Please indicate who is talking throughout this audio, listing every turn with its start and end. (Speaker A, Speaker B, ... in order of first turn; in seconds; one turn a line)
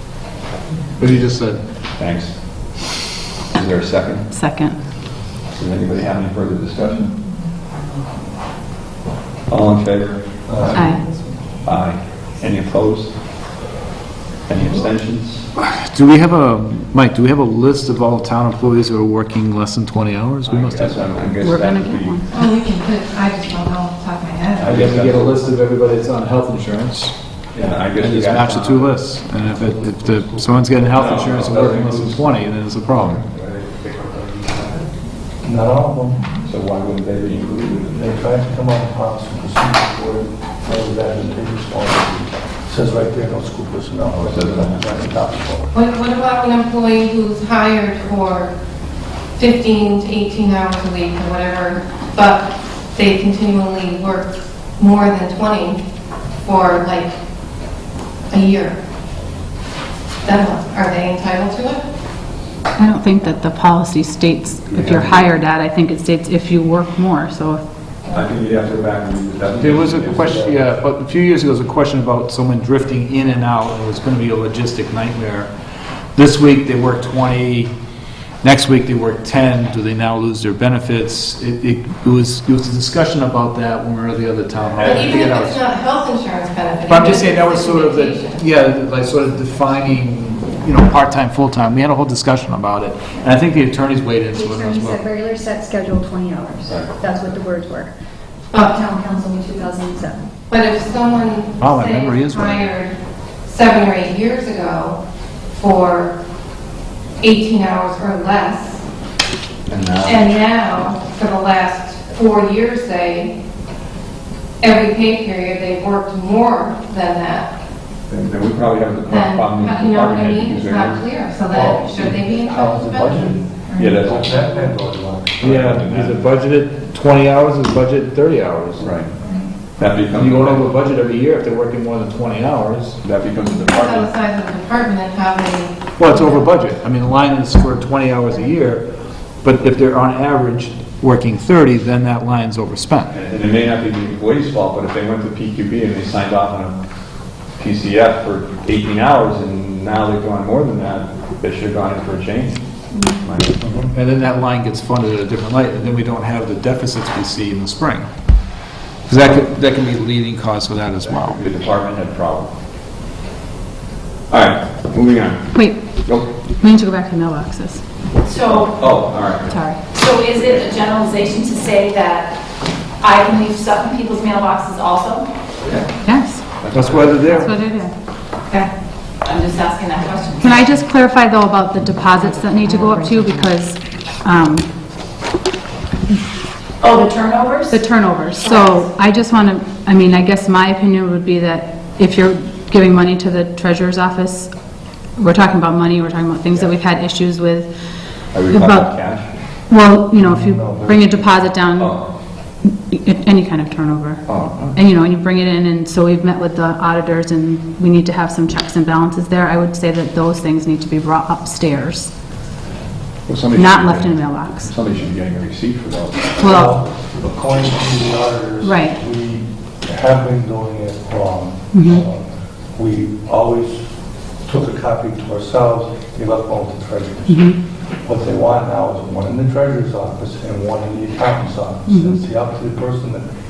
Speaker A: 1.0-1.6
Speaker B: 2.0-2.3
Speaker B: 3.5-4.3
Speaker C: 4.3-4.8
Speaker B: 5.5-7.1
Speaker B: 9.5-10.9
Speaker D: 10.5-10.9
Speaker C: 10.7-11.0
Speaker B: 11.6-13.1
Speaker B: 14.5-15.4
Speaker A: 15.6-21.2
Speaker B: 20.4-22.2
Speaker C: 21.4-22.4
Speaker E: 22.3-24.9
Speaker B: 24.6-25.4
Speaker A: 24.6-27.1
Speaker B: 27.6-28.9
Speaker A: 27.9-33.2
Speaker B: 30.9-32.2
Speaker D: 35.4-36.3
Speaker B: 36.5-38.2
Speaker D: 38.0-45.7
Speaker B: 44.1-44.9
Speaker E: 45.7-48.5
Speaker E: 49.4-55.8
Speaker E: 56.4-57.1
Speaker E: 58.3-58.8
Speaker E: 60.2-61.8
Speaker C: 62.8-67.6
Speaker B: 64.7-65.2
Speaker B: 68.1-70.5
Speaker A: 69.6-75.5
Speaker A: 76.2-77.7
Speaker A: 78.4-85.6
Speaker B: 84.7-85.1
Speaker E: 84.8-88.4
Speaker A: 86.9-95.0
Speaker F: 94.3-97.9
Speaker B: 96.6-97.0
Speaker E: 98.5-98.8
Speaker F: 98.7-100.3
Speaker E: 100.5-102.9
Speaker A: 101.6-102.7
Speaker E: 103.5-105.0
Speaker E: 105.5-106.1
Speaker E: 107.2-108.8
Speaker B: 109.7-110.2
Speaker E: 110.0-113.3
Speaker E: 114.6-117.5
Speaker B: 118.1-121.0
Speaker E: 119.1-124.5
Speaker D: 121.5-123.4
Speaker B: 123.8-124.4
Speaker D: 124.0-125.6
Speaker B: 125.4-126.2
Speaker A: 125.4-129.0
Speaker B: 128.8-129.1
Speaker B: 129.8-130.7
Speaker A: 130.1-133.0
Speaker B: 133.0-134.1
Speaker E: 133.4-136.4
Speaker A: 136.0-138.9
Speaker A: 139.4-143.1
Speaker B: 143.1-146.8
Speaker B: 147.6-152.6
Speaker B: 153.2-153.6
Speaker D: 153.6-153.9
Speaker A: 153.9-158.1
Speaker A: 159.1-161.4
Speaker B: 161.1-162.5
Speaker B: 164.3-166.3
Speaker C: 165.5-165.8
Speaker C: 166.6-167.8
Speaker G: 168.2-168.8
Speaker B: 168.8-169.6
Speaker C: 169.5-169.8
Speaker G: 169.9-172.4
Speaker G: 173.0-175.3
Speaker C: 176.0-176.4
Speaker B: 176.6-177.5
Speaker A: 176.7-177.5
Speaker C: 177.4-177.9
Speaker G: 179.2-180.8
Speaker C: 180.4-184.7
Speaker G: 182.7-183.3
Speaker G: 186.8-188.9
Speaker C: 187.7-194.5
Speaker C: 195.2-197.7
Speaker B: 198.3-199.3
Speaker C: 198.5-199.0
Speaker C: 199.7-202.0
Speaker D: 200.2-201.3
Speaker B: 201.8-202.1
Speaker C: 202.6-212.1
Speaker B: 204.3-204.8
Speaker B: 213.3-216.5
Speaker C: 213.5-214.7
Speaker C: 216.4-216.7
Speaker D: 216.4-223.8
Speaker C: 218.6-219.0
Speaker C: 221.7-222.0
Speaker D: 224.4-233.3
Speaker C: 227.3-227.6
Speaker C: 231.9-232.2